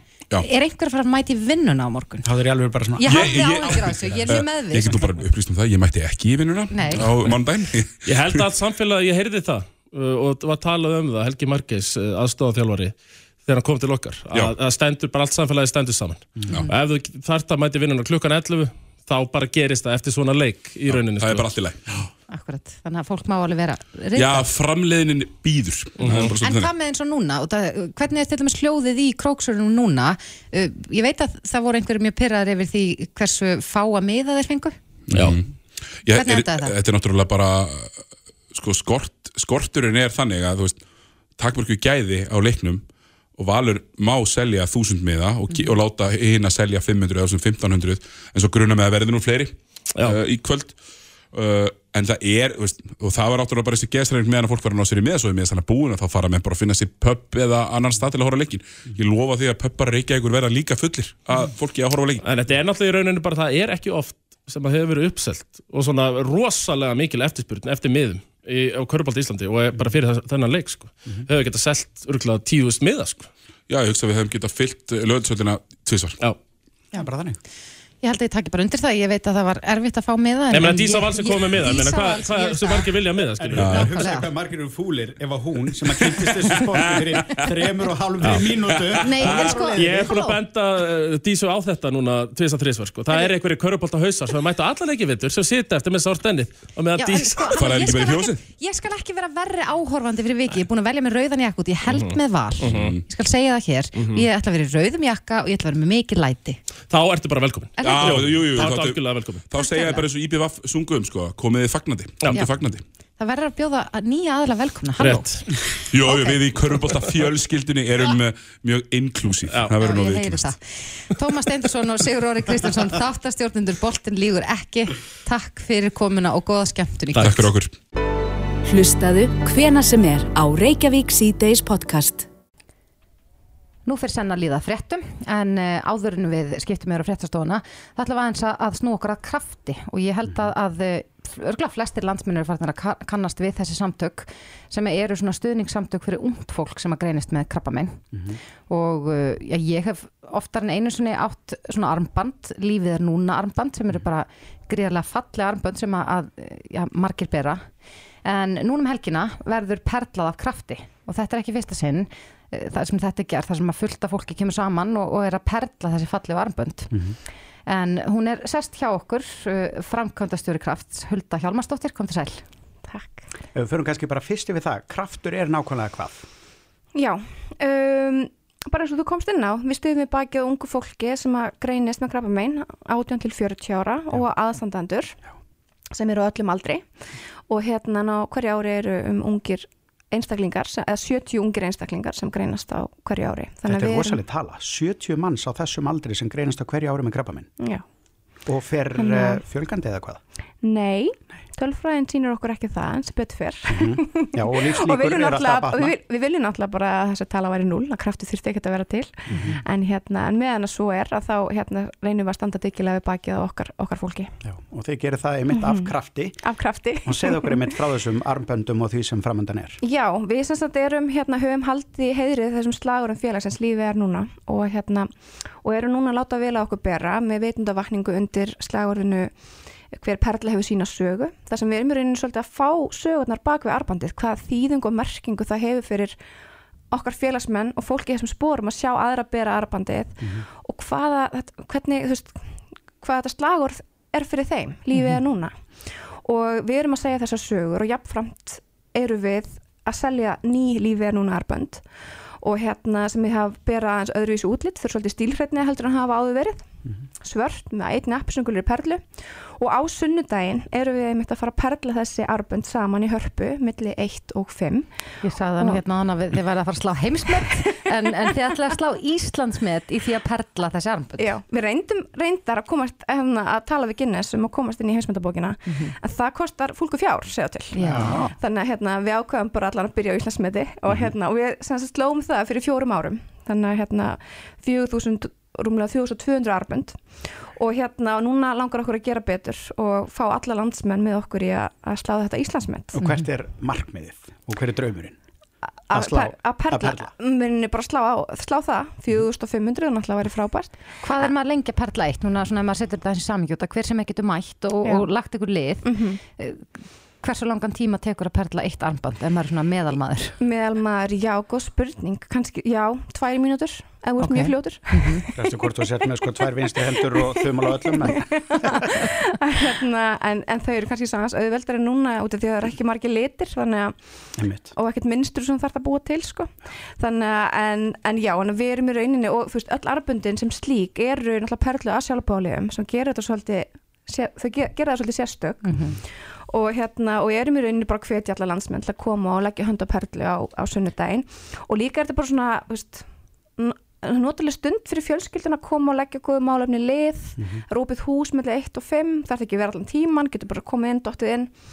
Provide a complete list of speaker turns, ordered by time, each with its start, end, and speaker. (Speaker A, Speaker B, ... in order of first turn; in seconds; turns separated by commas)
Speaker A: 0.4-2.3, Speaker B: 2.2-4.4, Speaker A: 3.0-5.0, Speaker C: 3.1-8.4, Speaker A: 6.7-7.1, Speaker D: 8.1-21.5, Speaker B: 16.4-16.7, Speaker C: 20.9-22.0, Speaker A: 22.3-24.4, Speaker C: 24.1-26.7, Speaker D: 26.0-26.3, Speaker A: 26.4-34.8, Speaker C: 35.1-35.5, Speaker D: 35.1-35.4, Speaker C: 36.0-40.8, Speaker A: 36.1-36.8, Speaker C: 41.4-42.8, Speaker C: 43.4-50.8, Speaker C: 51.3-62.2, Speaker D: 62.2-73.3, Speaker C: 73.7-76.2, Speaker B: 76.9-77.4, Speaker A: 78.0-82.9, Speaker D: 80.5-83.7, Speaker B: 83.4-90.2, Speaker C: 83.6-83.9, Speaker A: 83.6-84.3, Speaker C: 88.3-89.3, Speaker A: 89.0-90.4, Speaker D: 89.7-97.6, Speaker A: 97.0-106.6, Speaker C: 97.4-98.4, Speaker D: 101.9-103.0, Speaker C: 102.6-103.0, Speaker D: 104.0-104.3, Speaker D: 106.9-109.5, Speaker A: 107.8-108.4, Speaker C: 107.8-112.8, Speaker A: 109.5-110.0, Speaker A: 113.2-116.4, Speaker D: 115.0-115.4, Speaker C: 115.9-120.5, Speaker A: 119.6-127.5, Speaker C: 127.2-127.7, Speaker E: 128.7-132.3, Speaker A: 133.9-148.1, Speaker B: 140.2-140.5, Speaker B: 148.1-148.4, Speaker A: 148.7-157.7, Speaker A: 158.2-167.0, Speaker A: 167.7-172.4, Speaker F: 172.9-173.3, Speaker B: 173.5-176.2, Speaker F: 176.9-185.2, Speaker F: 185.9-186.9, Speaker F: 187.5-194.2, Speaker B: 193.7-197.5, Speaker F: 197.6-197.8, Speaker B: 198.4-200.2, Speaker F: 199.0-199.4, Speaker F: 200.6-214.3, Speaker B: 203.7-206.0, Speaker B: 209.3-209.6, Speaker B: 214.4-216.5, Speaker F: 215.5-217.8, Speaker B: 217.0-219.8, Speaker F: 219.8-229.3, Speaker F: 229.9-236.2, Speaker F: 236.9-251.9, Speaker A: 244.9-245.2, Speaker F: 252.4-265.8, Speaker A: 265.2-271.3, Speaker F: 267.5-268.4, Speaker F: 271.2-292.9, Speaker A: 275.7-275.9, Speaker A: 277.7-278.3, Speaker B: 277.9-278.3, Speaker B: 293.0-295.2, Speaker F: 295.9-301.3, Speaker B: 295.9-297.1, Speaker A: 301.0-310.4, Speaker F: 305.8-306.2, Speaker F: 310.4-315.4, Speaker A: 314.2-315.2, Speaker B: 315.3-319.0, Speaker F: 317.4-324.0, Speaker B: 324.4-324.7, Speaker F: 324.7-343.1, Speaker A: 335.6-336.0, Speaker F: 343.6-351.5